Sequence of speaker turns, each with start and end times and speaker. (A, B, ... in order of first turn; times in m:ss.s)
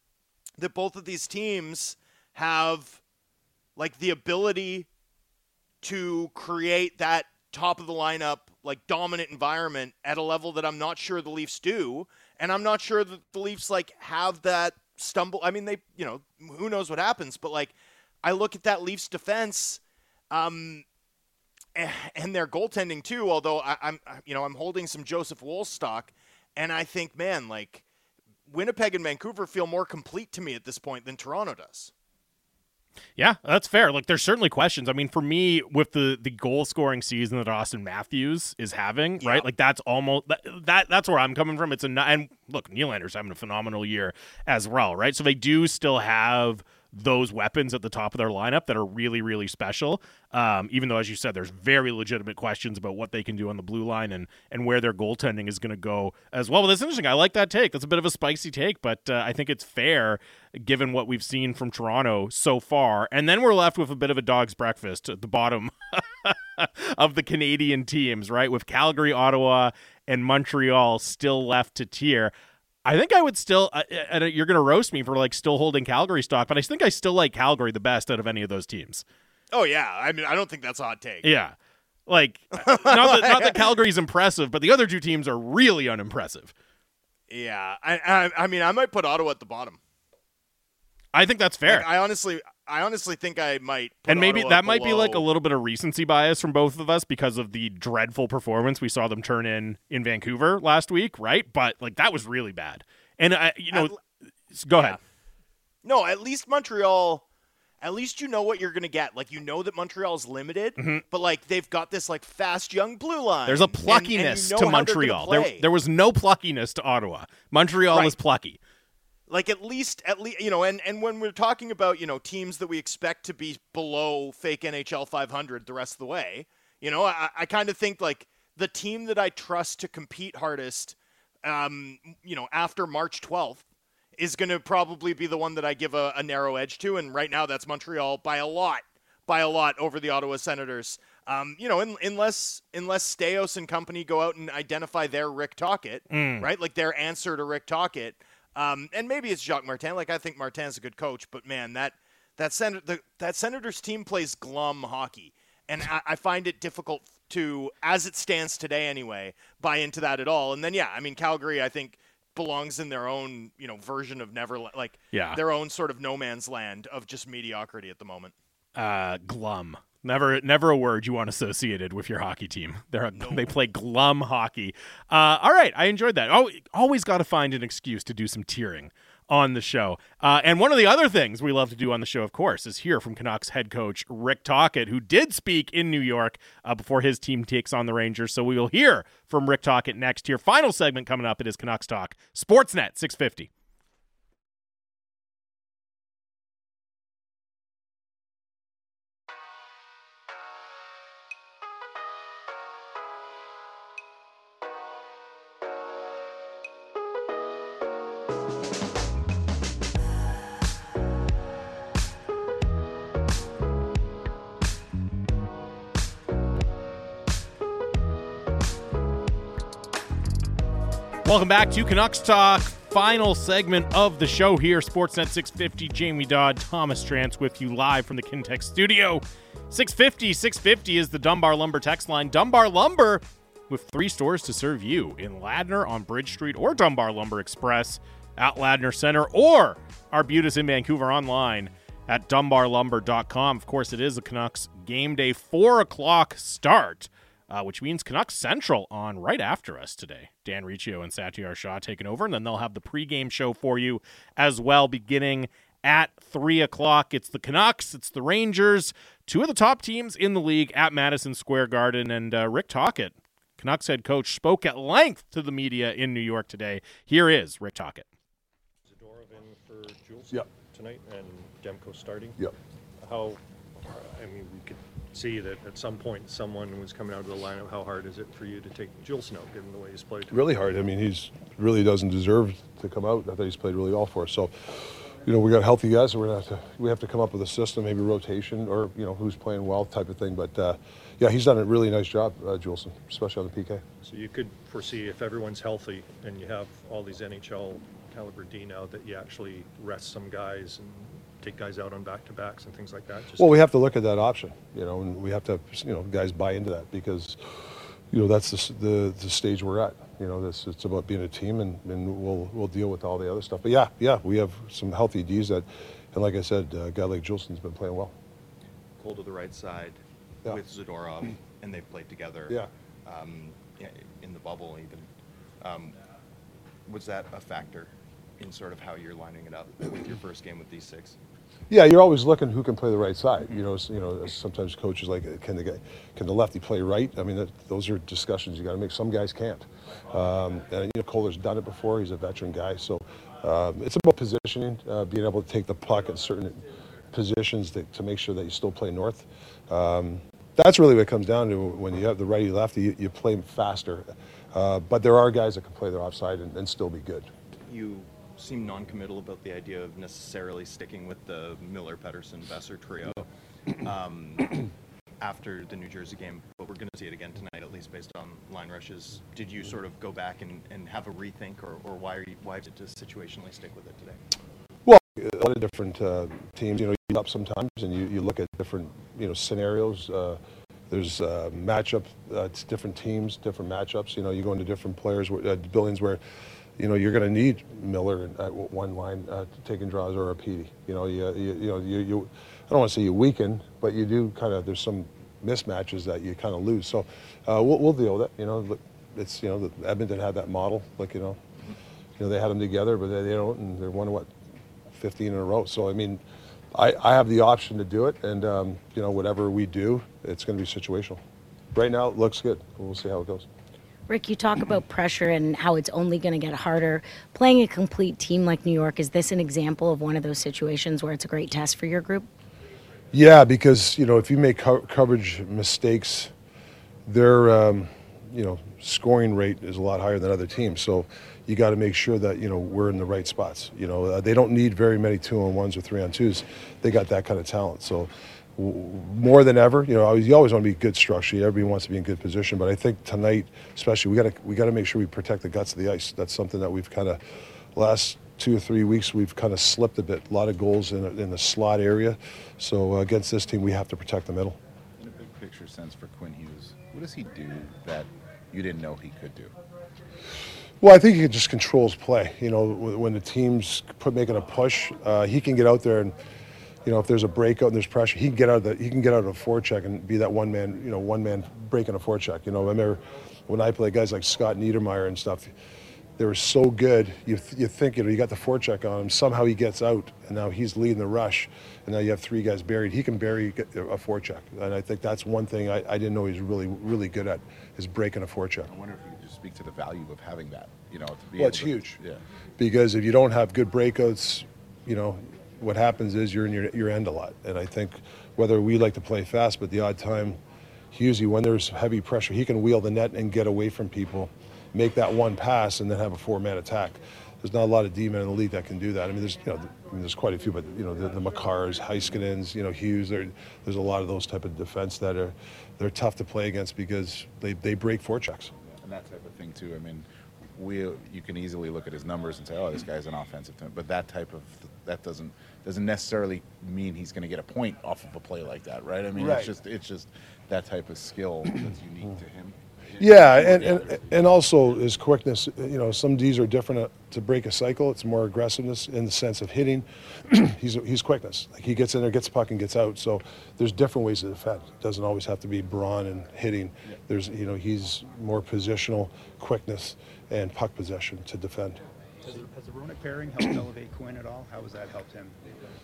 0:00.6-0:03.0 A
0:03.8-0:04.9 A
0:05.8-0:20.8 A
0:21.8-0:27.8 A
0:28.5-0:31.9 A
0:33.2-1:12.3 B
0:39.2-0:39.5 A
1:12.8-1:19.0 B
1:19.5-1:21.3 A
1:21.2-1:21.6 B
1:22.1-1:26.5 B
1:22.6-1:23.7 A
1:27.3-1:29.8 A
1:31.1-1:31.9 B
1:31.7-1:35.3 A
1:34.1-1:44.0 B
1:43.7-1:44.0 A
1:44.5-1:45.0 B
1:45.8-1:47.3 A
1:47.8-1:55.6 A
1:53.5-1:58.6 B
1:57.9-1:58.2 A
1:59.3-2:13.6 A
2:14.2-2:48.4 A
2:26.1-2:26.5 B
2:45.1-2:45.4 B
2:48.8-3:13.5 B
2:53.1-2:53.5 A
3:41.2-4:28.1 B
4:28.8-4:32.4 C
4:33.0-4:40.4 C
4:40.3-4:53.8 D
4:54.0-5:03.6 C
5:03.4-5:07.4 D
5:08.1-5:18.1 D
5:19.0-5:25.1 E
5:25.6-5:26.0 E
5:26.9-5:31.2 E
5:31.7-5:57.3 D
5:57.6-6:03.3 E
6:03.8-6:04.7 E
6:05.2-6:14.2 E
6:14.8-6:26.2 D
6:26.8-6:41.4 D
6:42.2-6:44.3 D
6:44.9-6:46.2 D
6:46.8-6:51.2 D
6:51.8-6:53.5 D
6:54.1-7:02.3 F
7:03.1-7:06.3 D
7:07.1-7:27.2 D
7:27.8-7:34.6 D
7:35.0-7:39.5 G
7:40.8-7:46.2 D
7:46.8-7:55.5 D
7:56.2-8:08.7 D
8:08.7-8:12.2 G
8:11.4-8:12.0 D
8:12.6-8:20.4 D
8:20.9-8:38.5 D
8:38.6-8:54.8 G
8:49.2-8:49.5 D
8:53.0-9:11.8 D
9:12.2-9:15.4 H